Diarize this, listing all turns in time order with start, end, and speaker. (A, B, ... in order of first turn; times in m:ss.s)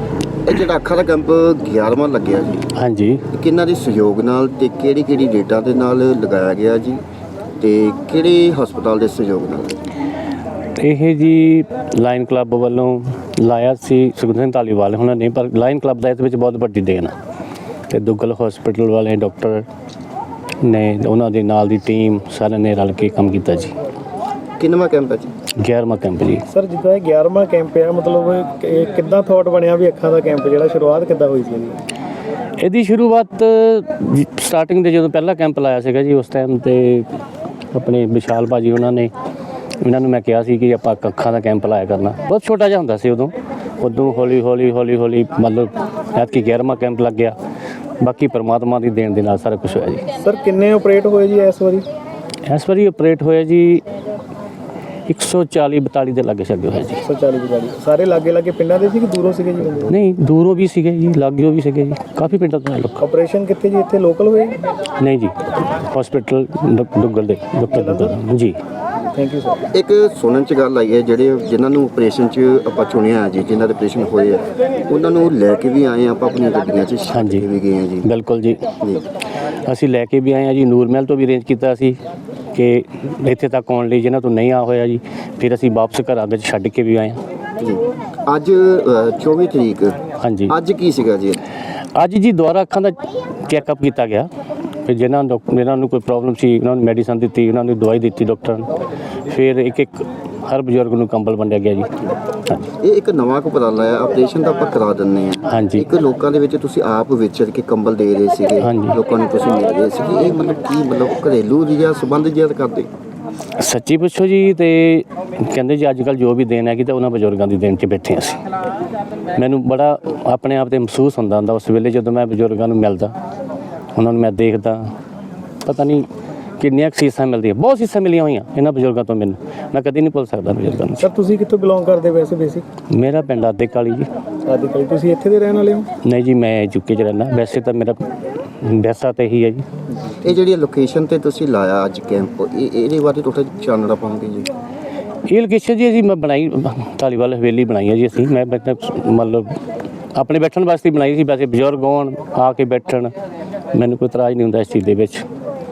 0:00.5-0:02.6 A
0:02.8-0:03.2 B
0:03.4-0:07.0 A
0:07.6-0:09.7 A
0:10.8-0:17.2 B
0:17.9-0:19.6 B
0:20.6-0:23.8 B
0:24.6-0:25.3 A
0:25.6-0:26.4 B
0:26.5-0:31.8 C
0:32.6-0:37.1 B
0:37.7-0:39.1 B
0:39.8-0:47.4 B
0:48.0-0:50.1 B
0:50.2-0:51.9 C
0:52.5-0:53.8 B
0:55.1-0:57.0 B
0:57.0-0:59.9 C
0:59.9-1:03.0 B
1:03.0-1:04.6 C
1:05.0-1:08.6 B
1:07.7-1:08.2 C
1:09.1-1:09.6 C
1:09.8-1:18.1 A
1:17.1-1:17.5 B
1:18.0-1:18.6 B
1:19.6-1:22.0 B
1:22.6-1:27.2 B
1:27.6-1:30.0 A
1:30.2-1:30.6 B
1:30.5-1:31.4 A
1:32.0-1:34.3 B
1:34.9-1:38.7 B
1:39.3-1:41.9 B
1:42.8-1:52.9 A
1:45.5-1:45.9 B
1:48.6-1:49.0 B
1:53.6-1:58.4 B
1:59.4-2:03.1 B
2:04.0-2:04.9 B
2:05.7-2:06.1 B
2:06.6-2:11.1 B
2:11.0-2:12.6 C
2:12.9-2:14.1 B
2:14.5-2:15.9 C
2:16.0-2:18.0 B
2:18.6-2:19.6 B
2:20.2-2:24.5 A
2:25.3-2:29.6 B
2:30.2-2:33.1 B
2:33.7-2:35.2 B